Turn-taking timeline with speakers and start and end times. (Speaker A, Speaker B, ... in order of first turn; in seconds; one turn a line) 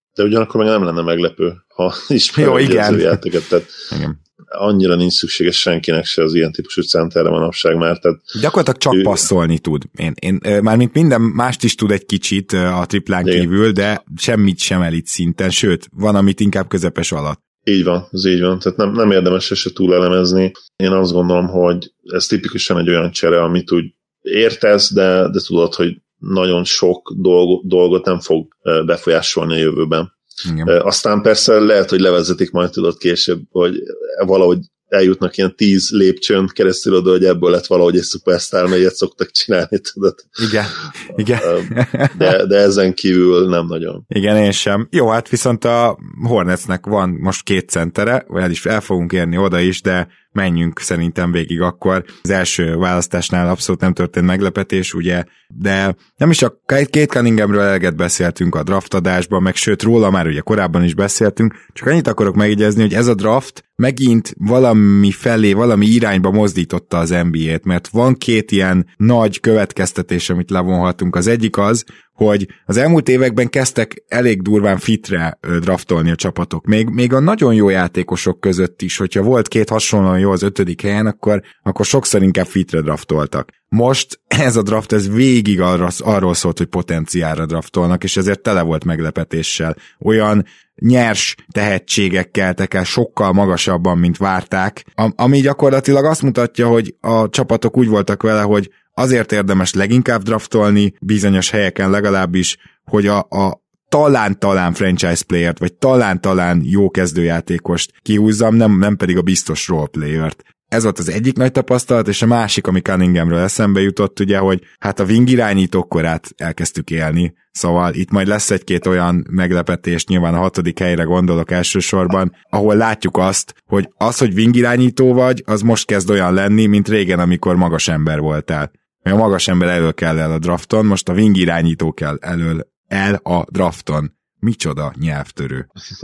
Speaker A: 0.1-3.8
Speaker B: 2.4-3.2
Speaker B: 3.9-4.2
Speaker A: 4.5-8.2
Speaker B: 8.3-17.4
Speaker A: 8.9-9.2
Speaker A: 17.7-30.1
Speaker B: 30.4-30.7
Speaker A: 30.6-40.5
Speaker B: 40.4-42.3
Speaker A: 41.4-44.1
Speaker B: 44.1-135.7